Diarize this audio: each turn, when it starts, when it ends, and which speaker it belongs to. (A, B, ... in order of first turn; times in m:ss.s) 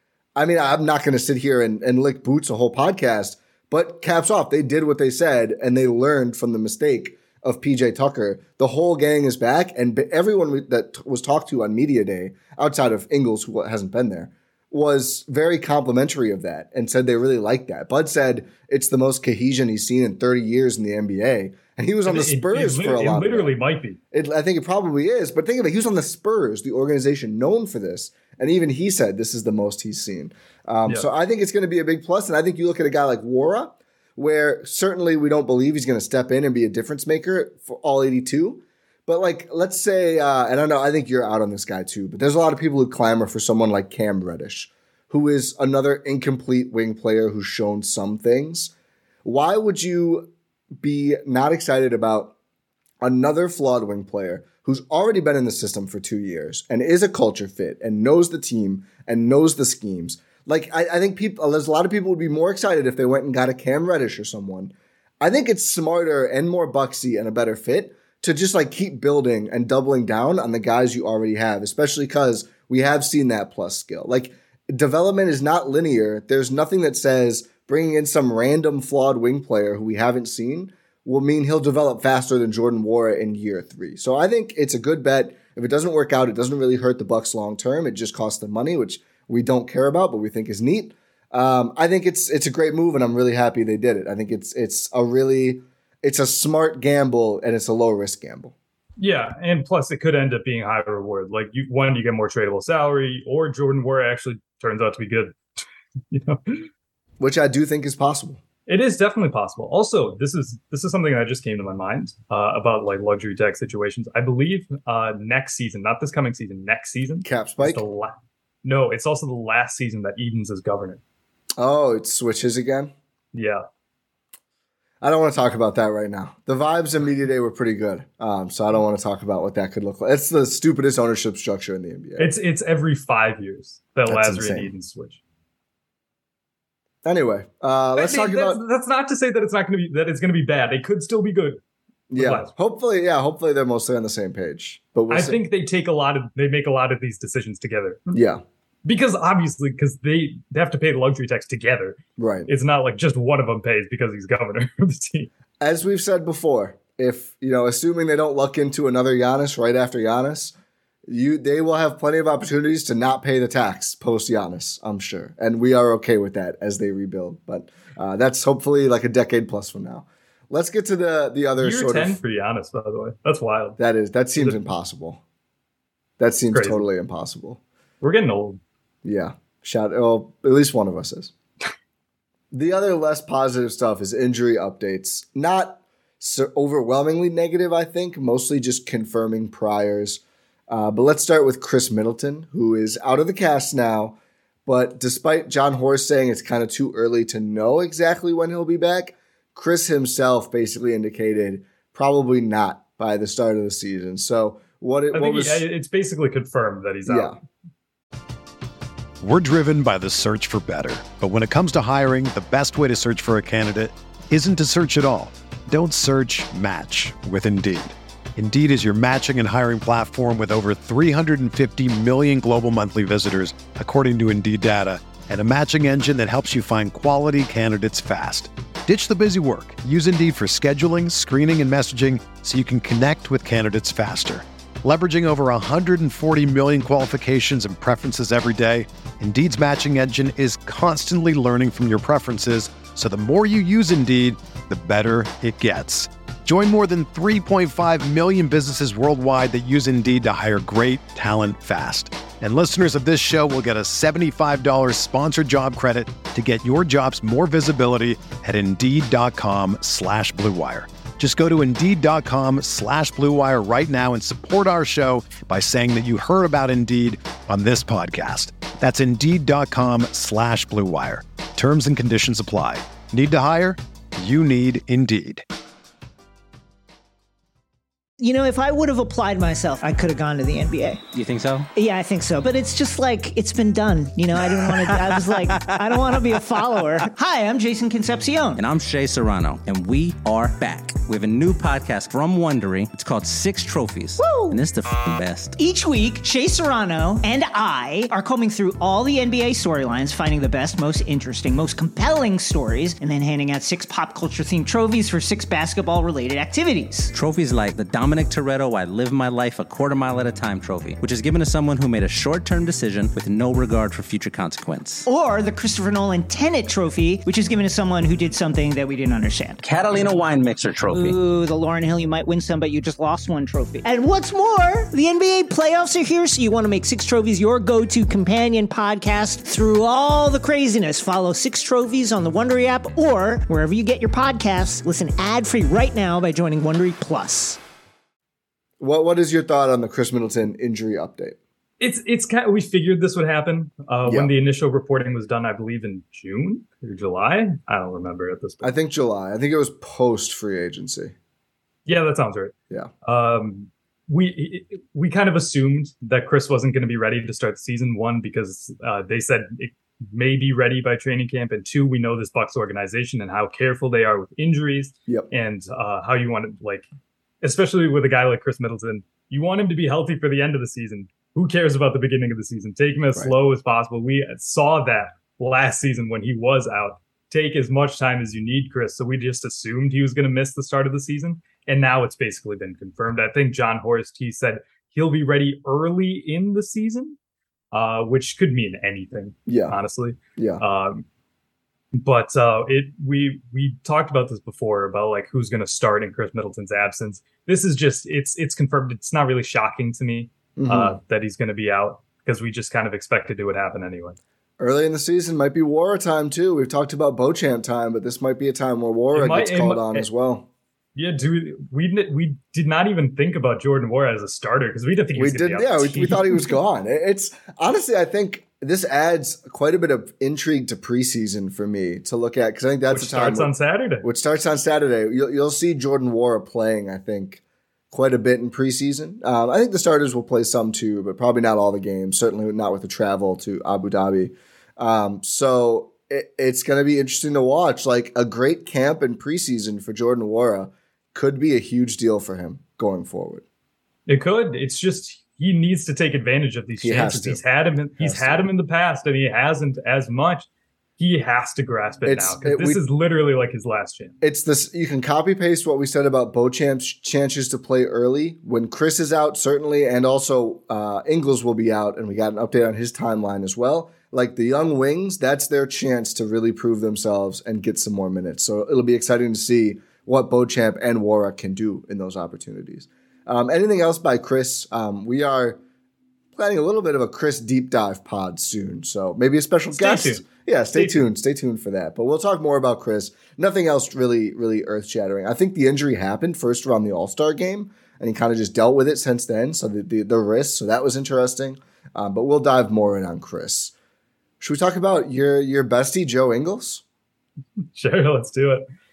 0:00.4-0:23.6 A
0:22.1-0:24.0 B
0:24.1-0:48.7 A
0:49.2-0:52.4 A
0:53.0-1:38.5 A
1:39.0-1:45.4 B
1:46.1-1:46.7 B
1:47.2-1:48.4 A
1:48.7-2:01.0 B
1:57.2-1:57.8 A
2:01.6-2:02.9 A
2:03.3-2:03.6 B
2:05.0-2:12.3 A
2:12.2-2:15.2 B
2:14.1-2:14.7 A
2:17.0-2:18.6 A
2:18.0-2:21.6 B
2:22.1-2:25.4 A
2:22.2-2:22.5 B
2:25.1-2:28.0 B
2:28.1-2:28.4 A
2:28.8-2:35.3 B
2:32.2-2:32.5 A
2:35.6-2:40.5 A
2:41.1-2:52.2 A
2:51.6-2:53.8 B
2:53.8-2:55.2 A
2:54.4-2:54.6 B
2:56.2-2:57.6 A
2:56.5-2:56.8 B
2:58.0-2:58.6 B
2:59.0-3:01.3 A
3:02.5-3:25.6 A
3:25.1-3:27.4 B
3:27.1-3:27.4 A
3:29.2-4:35.4 C
4:38.2-4:41.0 D
4:41.1-4:41.7 E
4:41.8-4:48.6 D
4:48.6-4:55.6 E
4:54.2-4:54.6 D
4:55.6-5:07.1 D
5:07.1-5:15.0 E
5:15.0-5:20.0 D
5:20.6-5:21.1 E
5:20.9-5:37.6 D
5:38.8-5:41.4 A
5:41.8-5:48.7 B
5:44.1-5:44.3 A
5:48.6-5:51.1 A
5:51.9-6:06.9 B
6:07.4-6:27.2 B
6:27.7-6:31.0 B
6:29.5-6:29.8 A
6:30.4-6:30.6 A
6:31.9-6:44.2 B
6:40.6-6:41.0 A
6:44.6-6:50.5 A
6:49.1-6:50.1 B
6:51.0-6:56.6 B
6:55.2-7:03.5 A
7:02.9-7:04.1 B
7:04.0-7:23.4 A
7:24.1-7:34.2 B
7:26.8-7:27.4 A
7:28.0-7:28.5 A
7:32.0-7:32.8 A
7:34.2-7:55.6 A
7:56.3-8:13.7 A
7:59.7-8:01.0 B
8:14.4-8:16.8 A
8:17.7-8:18.6 B